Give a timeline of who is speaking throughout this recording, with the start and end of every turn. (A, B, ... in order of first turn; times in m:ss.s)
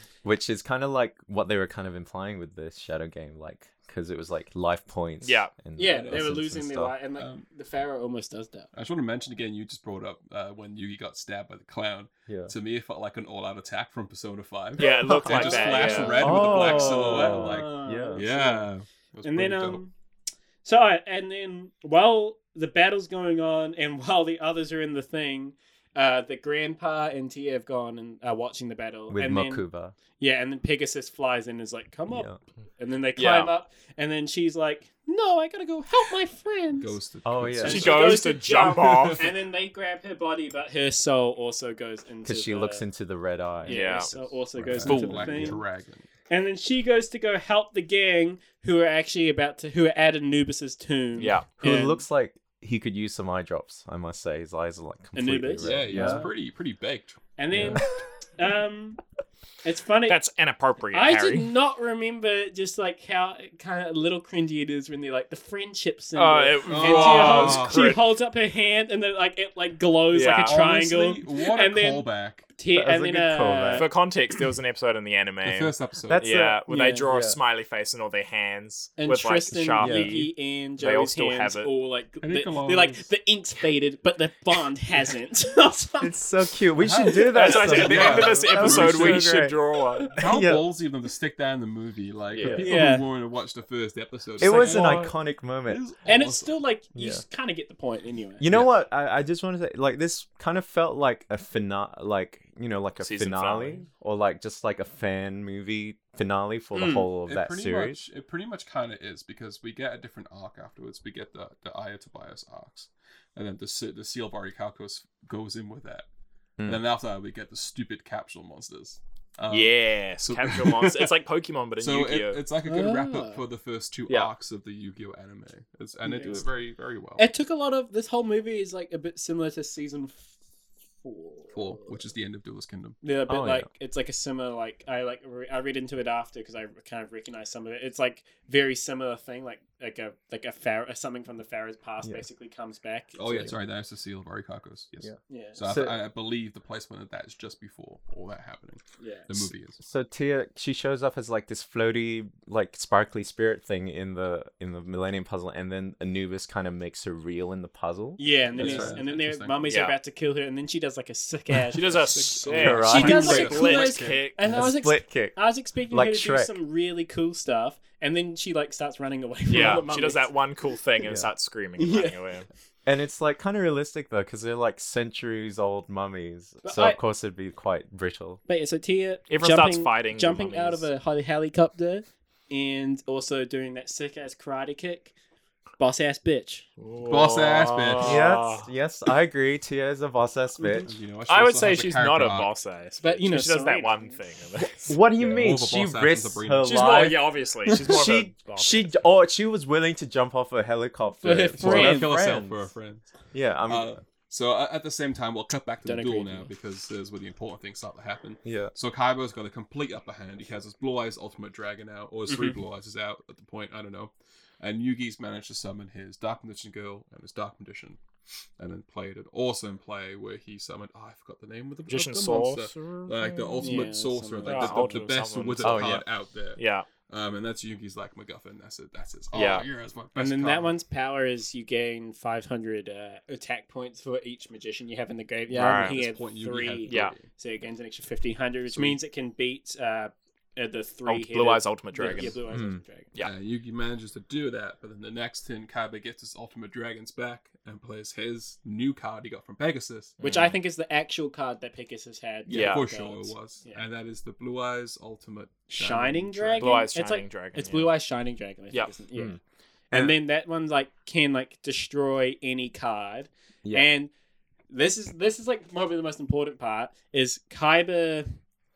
0:00.2-0:07.0 A
0:05.2-0:05.5 B
0:05.8-0:08.7 C
0:05.9-0:06.4 D
0:07.2-0:07.4 D
0:08.7-0:19.8 D
0:12.3-0:12.5 A
0:14.8-0:16.7 B
0:14.8-0:18.7 C
0:15.1-0:18.2 A
0:19.2-0:19.9 C
0:20.6-0:29.6 C
0:29.1-0:30.0 A
0:30.2-0:37.0 C
0:32.1-0:32.4 A
0:33.2-0:33.5 B
0:36.8-0:38.3 D
0:37.2-0:38.0 A
0:37.6-0:42.8 C
0:37.6-0:39.3 B
0:38.8-0:39.3 D
0:42.2-0:45.6 A
0:43.6-0:45.6 C
0:43.7-0:44.1 B
0:44.7-0:46.1 D
0:46.3-0:52.0 C
0:51.2-0:51.5 B
0:51.6-0:56.3 A
0:55.1-0:56.3 C
0:55.6-0:57.8 D
0:57.4-0:59.0 C
0:57.6-0:57.8 A
0:59.6-1:00.2 C
1:00.1-1:01.5 B
1:00.9-1:13.9 C
1:06.2-1:08.1 B
1:06.6-1:08.0 D
1:10.1-1:10.6 B
1:10.4-1:12.5 D
1:12.7-1:13.9 A
1:13.7-1:21.7 B
1:15.4-1:16.2 D
1:16.1-1:17.4 A
1:16.7-1:17.0 C
1:19.0-1:26.2 C
1:19.8-1:20.3 A
1:22.2-1:23.1 D
1:26.0-1:29.6 A
1:26.8-1:29.3 D
1:27.3-1:30.1 B
1:30.1-1:35.1 D
1:30.2-1:30.6 A
1:32.3-1:32.8 B
1:32.4-1:32.7 A
1:32.5-1:33.1 C
1:34.4-1:35.8 A
1:34.4-1:35.1 B
1:34.5-1:35.0 C
1:35.7-1:36.6 D
1:36.0-1:38.5 C
1:37.0-1:37.2 A
1:38.4-1:48.0 A
1:43.0-1:43.8 B
1:46.7-1:47.1 C
1:47.3-1:56.1 D
1:56.6-2:01.2 D
1:59.5-2:02.4 B
2:01.8-2:07.3 D
2:02.6-2:03.4 C
2:06.0-2:06.5 C
2:07.2-2:10.3 C
2:11.0-2:12.0 C
2:11.5-2:13.0 D
2:13.0-2:23.5 C
2:13.3-2:13.7 A
2:23.2-2:29.8 D
2:25.0-2:26.0 A
2:25.3-2:25.6 C
2:29.0-2:29.5 C
2:29.8-2:39.0 A
2:38.2-2:50.3 C
2:38.5-2:39.7 D
2:39.7-2:40.0 B
2:41.7-2:44.4 B
2:41.8-2:44.2 D
2:42.6-2:43.6 A
2:44.4-2:45.4 A
2:45.9-2:46.6 A
2:49.5-2:52.5 B
2:51.0-2:51.3 A
2:51.8-2:52.2 C
2:52.9-2:58.4 A
2:56.6-2:57.0 C
2:58.5-3:05.1 C
2:59.3-3:00.9 B
3:05.8-3:06.7 C
3:06.8-3:08.7 B
3:07.0-3:08.3 D
3:08.0-3:10.9 A
3:10.6-3:10.9 C
3:10.8-3:12.5 D
3:11.3-3:15.0 B
3:13.0-3:14.2 C
3:14.8-3:22.7 A
3:15.2-3:17.1 D
3:16.6-3:18.9 B
3:21.2-3:22.2 C
3:21.5-3:23.1 D
3:23.3-3:24.0 A
3:23.7-3:38.0 D
3:25.8-3:26.5 C
3:28.4-3:28.7 A
3:38.6-3:50.8 D
3:41.9-3:43.9 B
3:43.6-3:45.4 C
3:44.4-3:46.0 B
3:45.6-3:46.0 A
3:46.6-3:46.9 B
3:49.3-3:49.7 B
3:50.2-4:03.1 C
3:55.5-3:56.0 B
3:55.6-3:57.3 D
3:56.9-3:57.1 B
3:58.7-3:59.0 D
4:01.1-4:02.4 B
4:02.5-4:02.8 A
4:03.2-4:10.2 D
4:10.2-4:10.6 B
4:10.2-4:13.8 C
4:12.5-4:16.7 D
4:12.5-4:12.8 B
4:15.7-4:19.4 C
4:16.6-4:18.0 B
4:19.9-4:20.2 A
4:19.9-4:24.1 C
4:23.6-4:23.9 A
4:24.7-4:28.3 C